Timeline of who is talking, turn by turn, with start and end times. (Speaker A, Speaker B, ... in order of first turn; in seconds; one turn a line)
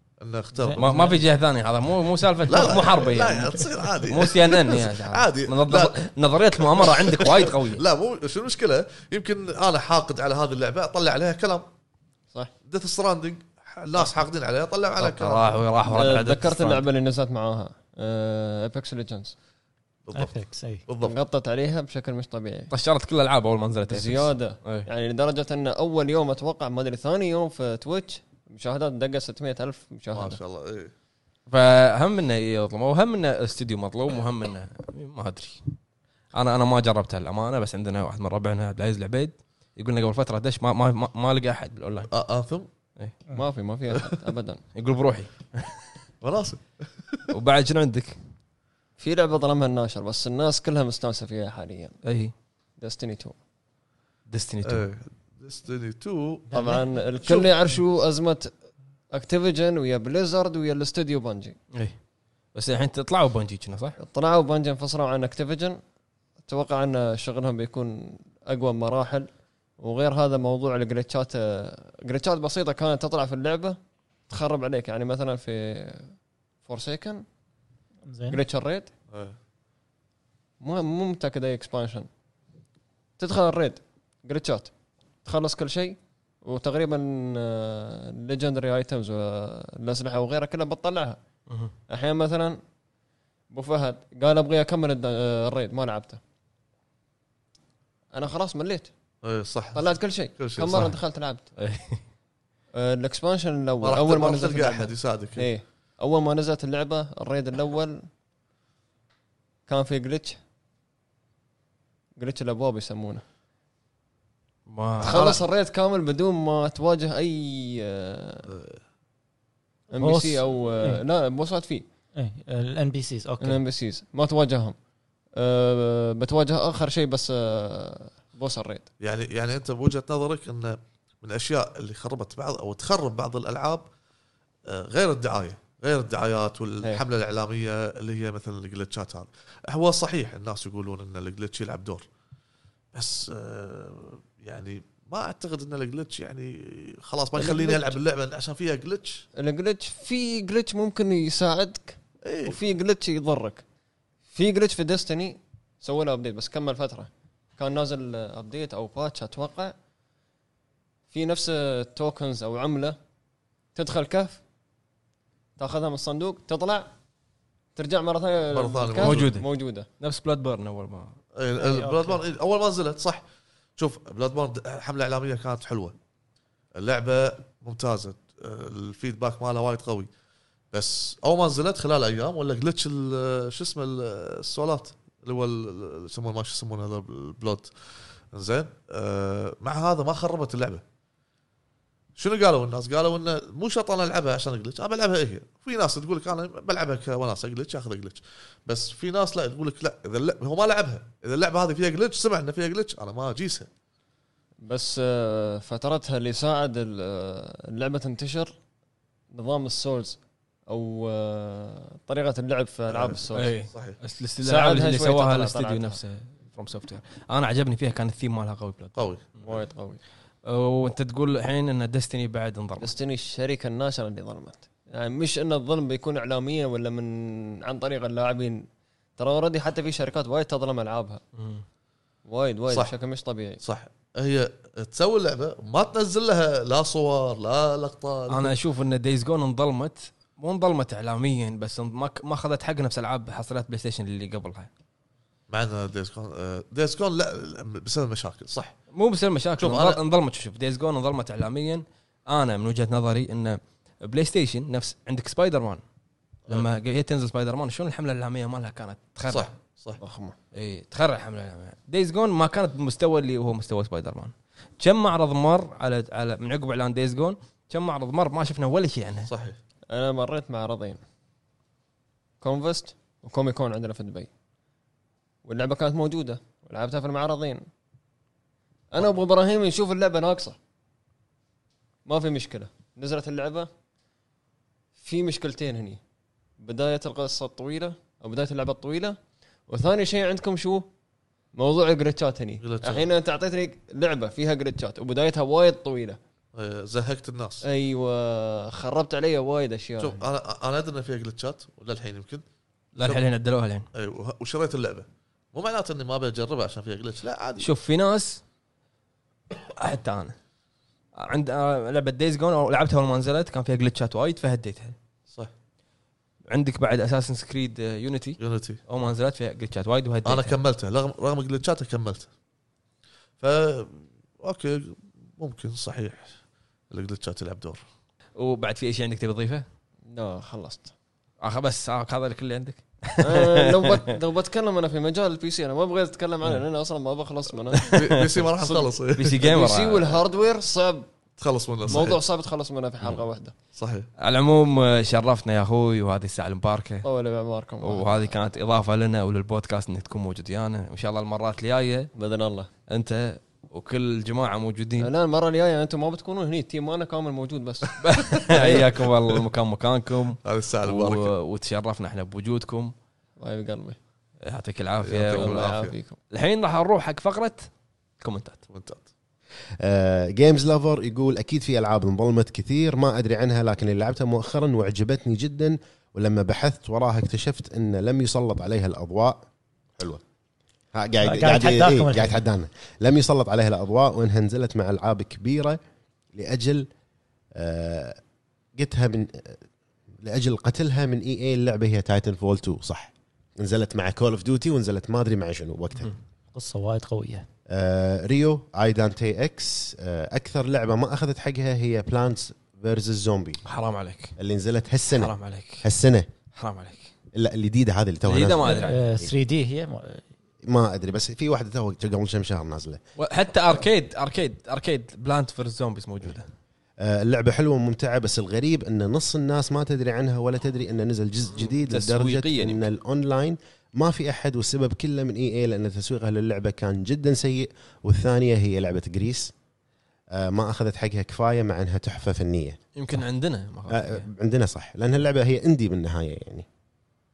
Speaker A: 0.2-1.0
Speaker B: 0.6-1.2
Speaker C: 0.8-7.8
Speaker A: 2.5-6.0
Speaker A: 6.6-11.7
Speaker A: 12.6-15.6
Speaker C: 15.0-16.9
Speaker D: 15.9-19.3
Speaker A: 20.1-21.1
Speaker B: 20.1-20.8
Speaker D: 21.0-22.7
Speaker C: 22.7-24.9
Speaker D: 23.9-30.4
Speaker A: 30.1-30.9
Speaker C: 31.5-35.6
Speaker C: 36.3-42.1
Speaker A: 42.1-42.7
Speaker D: 43.3-44.6
Speaker C: 44.7-45.8
Speaker A: 46.2-47.3
Speaker C: 47.3-48.2
Speaker D: 49.0-52.0
Speaker C: 52.0-52.3
Speaker D: 52.8-53.4
Speaker C: 54.3-54.9
Speaker A: 54.6-56.5
Speaker B: 56.5-56.8
Speaker D: 56.5-58.5
Speaker A: 57.2-57.5
Speaker D: 59.1-61.6
Speaker C: 62.5-64.0
Speaker D: 64.0-65.8
Speaker D: 66.5-73.8
Speaker D: 74.3-76.1
Speaker D: 76.6-77.2
Speaker B: 78.0-78.4
Speaker D: 78.3-78.9
Speaker A: 79.1-79.4
Speaker D: 80.6-82.1
Speaker D: 83.2-84.7
Speaker D: 85.2-91.2
Speaker D: 91.9-92.6
Speaker D: 93.5-96.2
Speaker D: 98.1-98.9
Speaker A: 99.2-100.9
Speaker D: 99.7-101.5
Speaker C: 101.6-102.0
Speaker D: 102.7-108.0
Speaker A: 103.8-105.5
Speaker D: 109.7-110.4
Speaker D: 112.2-113.2
Speaker C: 114.7-115.2
Speaker A: 115.0-115.4
Speaker D: 115.0-118.5
Speaker A: 118.5-118.8
Speaker D: 119.9-121.8
Speaker B: 120.0-121.0
Speaker B: 122.2-123.6
Speaker D: 123.4-124.8
Speaker D: 125.4-128.9
Speaker A: 129.0-133.8
Speaker A: 134.7-142.1
Speaker A: 142.9-149.2
Speaker D: 147.4-148.0
Speaker D: 149.4-153.6
Speaker A: 152.2-152.6
Speaker D: 154.3-159.7
Speaker D: 161.1-163.0
Speaker D: 163.7-164.4
Speaker D: 165.6-166.9
Speaker D: 167.7-169.9
Speaker A: 168.5-169.3
Speaker C: 169.0-169.4
Speaker C: 170.0-171.1
Speaker A: 171.4-173.2
Speaker B: 171.6-172.2
Speaker A: 173.8-175.9
Speaker A: 176.7-180.1
Speaker A: 180.7-187.7
Speaker A: 188.3-190.8
Speaker A: 192.2-203.7
Speaker D: 204.6-208.5
Speaker D: 209.3-210.2
Speaker D: 210.7-213.6
Speaker A: 212.9-214.0
Speaker C: 213.3-219.0
Speaker D: 214.4-216.0
Speaker A: 218.9-219.5
Speaker D: 219.4-220.0
Speaker C: 220.4-222.9
Speaker D: 222.8-231.2
Speaker C: 231.3-231.6
Speaker D: 232.3-233.6
Speaker A: 233.6-238.5
Speaker C: 238.3-244.7
Speaker A: 245.5-248.7
Speaker C: 248.9-255.8
Speaker A: 249.6-250.0
Speaker C: 256.5-259.5
Speaker A: 259.3-260.0
Speaker D: 260.0-260.4
Speaker C: 260.5-269.3
Speaker A: 269.3-269.6
Speaker D: 269.9-271.0
Speaker D: 272.4-274.3
Speaker D: 275.4-277.6
Speaker D: 278.9-280.6
Speaker D: 282.1-283.7
Speaker D: 284.9-286.0
Speaker D: 286.6-290.9
Speaker D: 291.5-296.2
Speaker A: 292.6-293.1
Speaker A: 296.5-297.6
Speaker D: 297.6-300.2
Speaker A: 300.0-302.4
Speaker C: 302.9-303.9
Speaker A: 303.9-307.7
Speaker C: 307.6-308.4
Speaker C: 309.5-310.3
Speaker C: 311.1-314.9
Speaker C: 316.5-320.6
Speaker A: 318.4-318.8
Speaker A: 320.3-322.3
Speaker A: 323.4-326.3
Speaker A: 326.9-327.8
Speaker C: 328.4-329.6
Speaker D: 330.1-330.9
Speaker C: 331.4-334.1
Speaker D: 333.2-338.1
Speaker C: 337.7-340.2
Speaker A: 337.9-339.4
Speaker D: 339.4-341.1
Speaker A: 341.4-342.2
Speaker D: 341.9-343.6
Speaker A: 343.7-344.1
Speaker C: 344.2-347.1
Speaker D: 347.0-348.2
Speaker C: 347.8-352.1
Speaker D: 352.1-352.7
Speaker C: 352.9-355.1
Speaker D: 355.0-357.9
Speaker C: 358.0-362.9
Speaker D: 358.5-358.9
Speaker A: 360.4-361.3
Speaker D: 363.4-364.0
Speaker C: 364.4-365.7
Speaker A: 365.0-365.9
Speaker D: 365.3-366.2
Speaker C: 366.3-367.7
Speaker C: 368.2-368.6
Speaker A: 368.7-369.1
Speaker E: 369.8-379.4
Speaker E: 380.9-385.8
Speaker B: 381.2-382.4
Speaker E: 386.3-386.9
Speaker E: 387.6-388.2
Speaker E: 388.7-389.6
Speaker E: 390.2-396.1
Speaker B: 396.5-397.5
Speaker E: 397.7-403.6
Speaker C: 403.6-404.3
Speaker E: 404.4-406.3
Speaker C: 405.1-405.8
Speaker C: 406.5-407.1
Speaker E: 407.3-409.3
Speaker C: 408.2-409.0
Speaker B: 408.6-410.2
Speaker E: 410.6-413.0
Speaker C: 413.2-416.5
Speaker E: 417.0-429.5
Speaker C: 421.6-422.8
Speaker E: 430.3-432.8
Speaker C: 432.9-434.3
Speaker E: 433.9-436.6